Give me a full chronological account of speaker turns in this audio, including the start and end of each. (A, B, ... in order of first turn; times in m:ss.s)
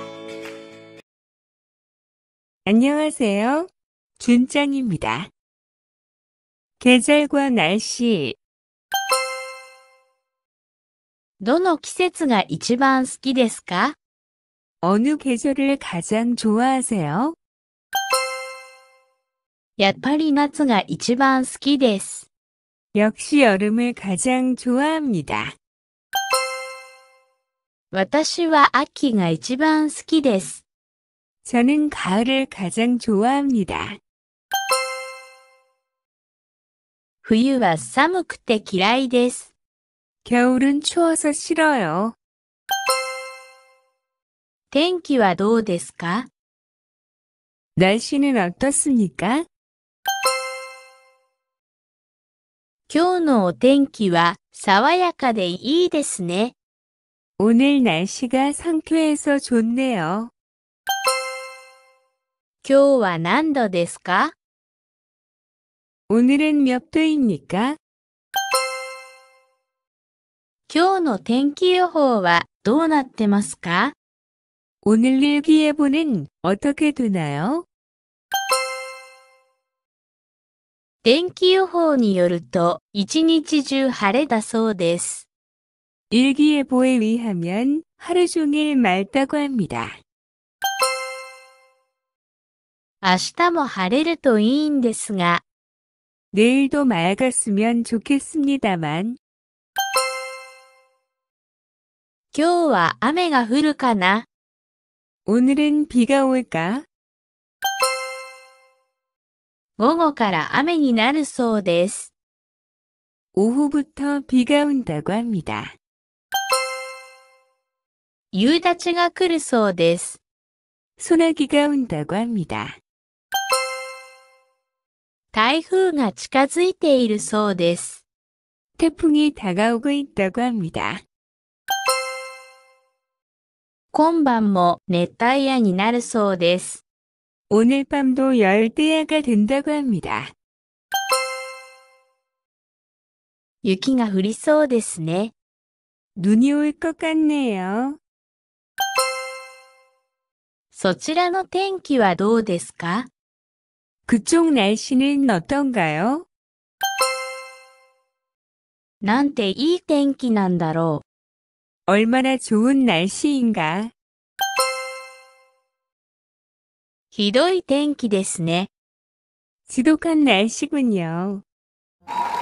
0:02.6-0:05.3 A
0:06.8-0:08.4 A
0:11.4-0:14.0 B
0:14.8-0:17.4 A
0:19.8-0:22.3 B
0:22.9-0:25.5 A
0:27.9-0:30.6 B
0:31.4-0:34.0 A
0:37.2-0:39.5 B
0:40.2-0:42.2 A
0:44.7-0:46.3 B
0:47.8-0:49.5 A
0:52.9-0:56.5 B
0:57.4-1:00.3 A
1:02.6-1:04.3 B
1:06.1-1:07.8 A
1:10.7-1:14.0 B
1:14.8-1:17.6 A
1:21.0-1:25.3 B
1:26.1-1:30.0 A
1:33.0-1:35.4 B
1:36.3-1:39.2 A
1:42.3-1:44.3 B
1:45.2-1:46.8 A
1:49.8-1:52.1 B
1:53.3-1:55.7 A
1:58.3-2:00.2 B
2:01.0-2:02.8 A
2:05.3-2:08.0 B
2:08.8-2:11.0 A
2:13.9-2:16.8 B
2:17.5-2:20.3 A
2:23.6-2:25.3 B
2:26.2-2:28.0 A
2:30.7-2:33.1 B
2:34.1-2:36.3 A
2:39.0-2:41.0 B
2:41.9-2:43.9 A
2:47.1-2:48.7 B
2:49.7-2:51.4 A